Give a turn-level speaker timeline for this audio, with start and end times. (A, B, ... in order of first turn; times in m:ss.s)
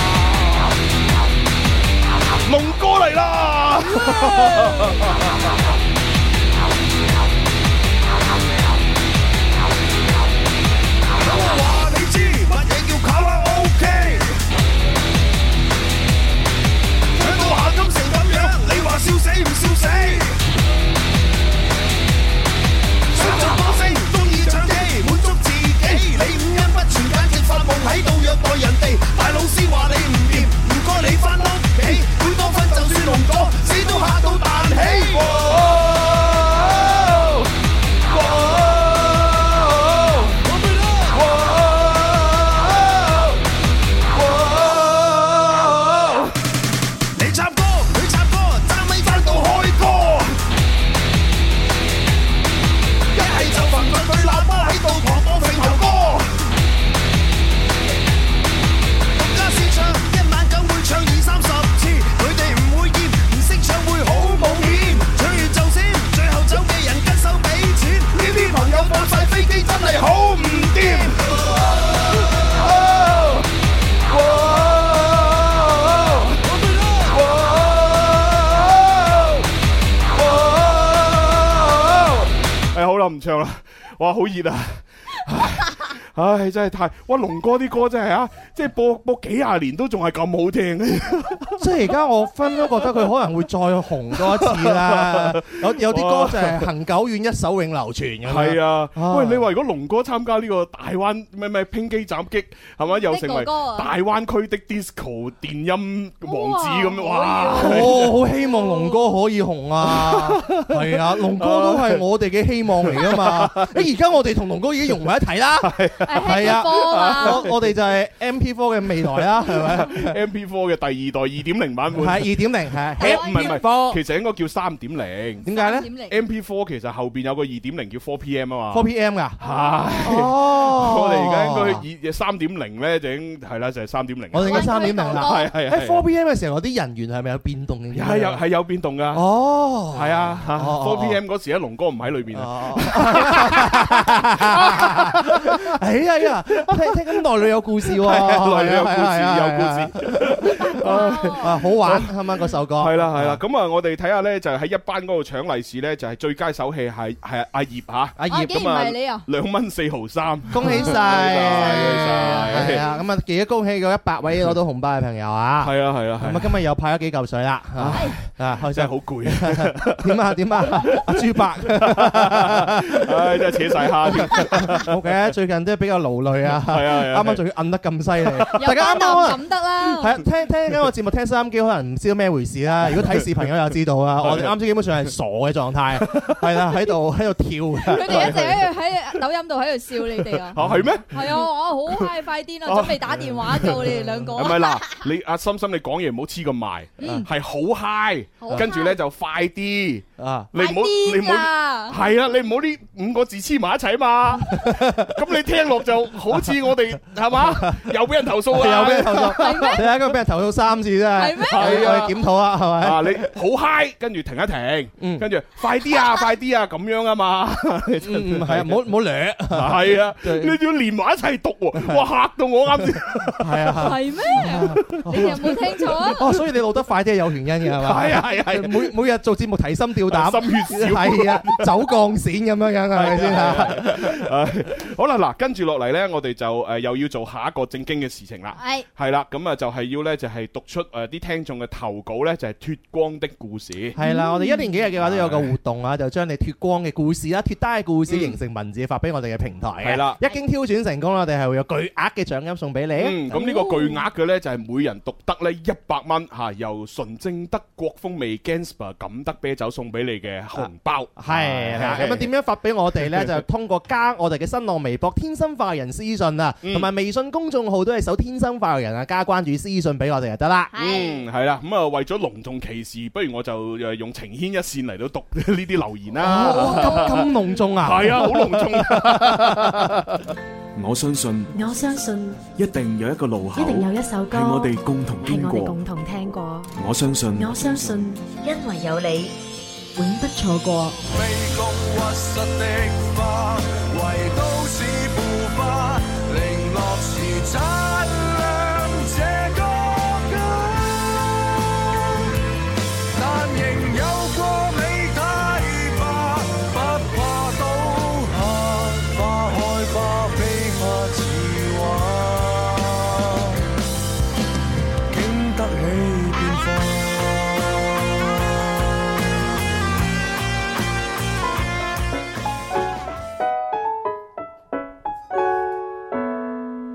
0:02.4-0:05.3 A
0:11.9-0:12.8 B
0:17.2-0:20.2 B
0:23.2-0:35.3 B
0:40.5-0:41.2 C
0:48.5-0:49.6 B
0:53.2-0:56.2 B
0:59.2-1:10.1 B
1:10.6-1:11.1 B
1:16.5-1:17.2 C
1:22.7-1:31.7 A
1:31.6-1:39.5 D
1:34.1-1:36.6 A
1:38.2-1:48.2 A
1:42.8-1:43.9 E
1:46.2-1:49.1 E
1:47.6-1:55.7 D
1:49.8-1:52.1 A
1:52.8-1:53.8 A
1:55.6-1:57.7 A
1:56.0-1:57.5 E
1:56.2-2:00.2 D
1:59.2-2:05.4 A
2:02.0-2:04.0 D
2:03.0-2:03.9 E
2:05.4-2:05.9 D
2:05.4-2:06.2 E
2:06.1-2:16.0 A
2:08.7-2:09.4 D
2:09.4-2:10.1 E
2:10.0-2:11.8 D
2:14.3-2:18.4 D
2:14.4-2:15.5 E
2:17.9-2:19.2 A
2:19.1-2:21.2 D
2:19.9-2:25.7 A
2:22.3-2:33.4 D
2:26.5-2:27.2 A
2:27.9-2:32.1 A
2:30.6-2:31.6 E
2:32.8-2:42.9 A
2:38.2-2:38.5 D
2:38.2-2:39.2 E
2:40.5-3:08.4 D
2:45.6-2:46.6 A
2:47.8-2:55.0 A
2:56.6-2:57.4 A
2:58.5-3:00.2 E
3:04.2-3:04.5 A
3:06.1-3:06.4 A
3:07.8-3:15.0 E
3:08.0-3:08.7 A
3:10.1-3:12.1 A
3:10.6-3:11.0 D
3:12.6-3:13.8 A
3:13.7-3:14.5 D
3:14.3-3:30.0 A
3:17.0-3:17.3 E
3:17.0-3:17.3 D
3:18.4-3:19.0 E
3:20.2-3:20.5 D
3:20.5-3:22.0 E
3:24.5-3:25.1 D
3:26.3-3:26.7 D
3:27.3-3:27.9 D
3:28.5-3:33.3 D
3:29.3-3:29.8 E
3:31.2-3:32.1 E
3:31.5-3:32.3 A
3:32.8-3:38.8 A
3:35.0-3:35.2 D
3:38.0-3:40.6 D
3:39.5-3:46.4 A
3:41.7-3:42.1 D
3:42.7-3:54.2 D
3:43.8-3:46.3 E
3:47.7-3:48.9 A
3:50.1-3:51.7 A
3:52.9-4:04.0 A
3:58.6-3:58.8 E
4:03.9-4:13.4 D
4:04.0-4:04.7 E
4:05.0-4:05.5 A
4:08.1-4:08.4 A
4:09.8-4:10.2 A
4:13.0-4:22.3 A
4:13.3-4:14.0 E
4:20.6-4:30.7 D
4:23.1-4:23.4 A
4:26.6-4:26.9 A
4:30.7-4:31.3 E
4:30.7-4:40.0 A
4:36.2-4:40.0 D
4:40.8-4:41.4 F
4:41.5-4:42.4 G
4:42.7-4:45.7 F
4:43.5-4:49.3 G
4:47.4-4:47.7 F
4:50.0-4:51.0 G
4:51.1-5:01.4 C
5:03.2-5:13.5 C
5:15.1-5:17.2 C